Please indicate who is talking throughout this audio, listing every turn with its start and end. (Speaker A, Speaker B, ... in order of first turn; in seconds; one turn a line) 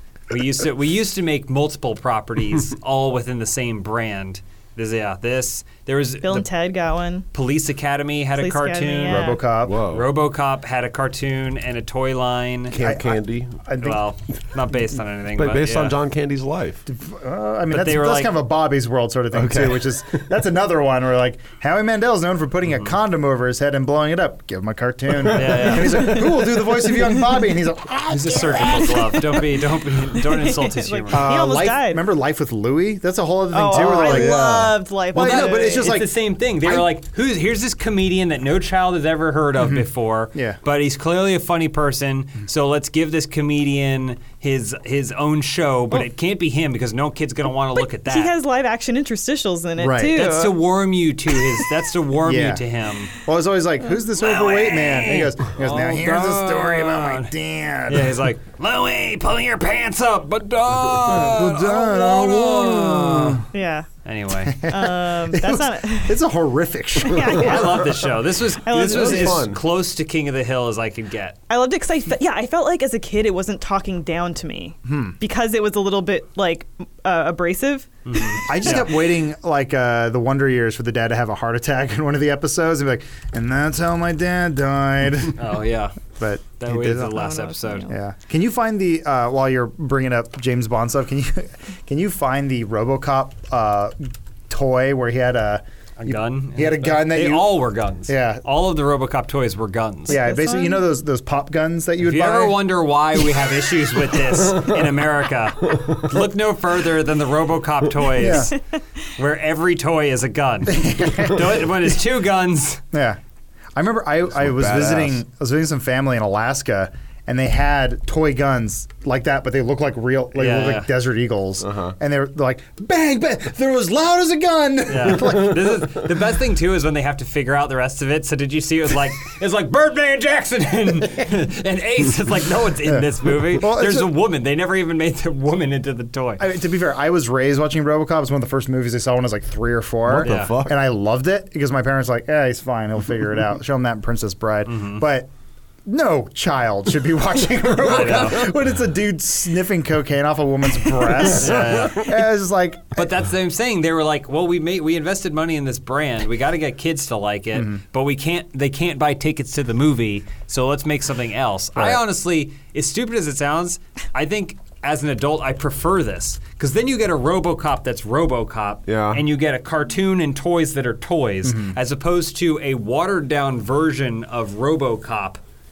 Speaker A: 0.3-6.5
Speaker B: 6.2-7.3
Speaker A: 7.3-12.8
Speaker B: 8.4-9.4
Speaker C: 9.1-9.8
Speaker D: 9.7-10.1
Speaker D: 12.7-13.6
Speaker C: 12.8-14.0
Speaker A: 13.8-16.0
Speaker D: 15.4-16.8
Speaker C: 16.9-29.1
Speaker A: 17.7-18.3
Speaker D: 19.3-19.9
Speaker A: 25.3-26.4
Speaker A: 28.1-31.3
Speaker B: 28.6-29.4
Speaker B: 30.1-32.0
Speaker C: 31.1-36.1
Speaker B: 33.5-35.9
Speaker D: 33.9-34.8
Speaker A: 35.1-48.3
Speaker C: 39.6-40.6
Speaker B: 47.8-50.6
Speaker C: 49.8-50.2
Speaker A: 50.1-53.1
Speaker C: 52.2-52.6
Speaker C: 53.2-58.2
Speaker A: 54.2-57.3
Speaker A: 57.9-63.5
Speaker C: 61.0-63.5
Speaker B: 63.5-63.9
Speaker A: 64.0-64.6
Speaker C: 64.5-67.6
Speaker B: 64.6-66.2
Speaker B: 67.0-69.5
Speaker A: 67.3-71.4
Speaker D: 68.8-69.6
Speaker B: 71.5-78.8
Speaker C: 74.8-75.2
Speaker A: 78.1-78.9
Speaker C: 78.5-85.5
Speaker A: 85.4-87.9
Speaker C: 86.2-87.2
Speaker B: 87.1-88.0
Speaker C: 87.9-98.4
Speaker A: 96.0-100.2
Speaker C: 100.1-102.7
Speaker B: 100.1-100.9
Speaker A: 102.0-108.6
Speaker C: 108.1-108.6
Speaker A: 109.2-112.8
Speaker C: 110.7-111.7
Speaker C: 112.9-113.2
Speaker C: 113.8-125.9
Speaker D: 114.3-115.2
Speaker A: 120.4-120.9
Speaker D: 121.6-122.0
Speaker A: 124.9-136.4
Speaker C: 132.8-134.1
Speaker C: 136.4-145.3
Speaker D: 140.1-140.8
Speaker A: 140.2-140.6
Speaker A: 144.7-145.0
Speaker C: 145.9-153.1
Speaker A: 147.8-148.5
Speaker A: 151.2-152.2
Speaker A: 152.9-175.4
Speaker D: 168.9-169.2
Speaker C: 171.4-171.8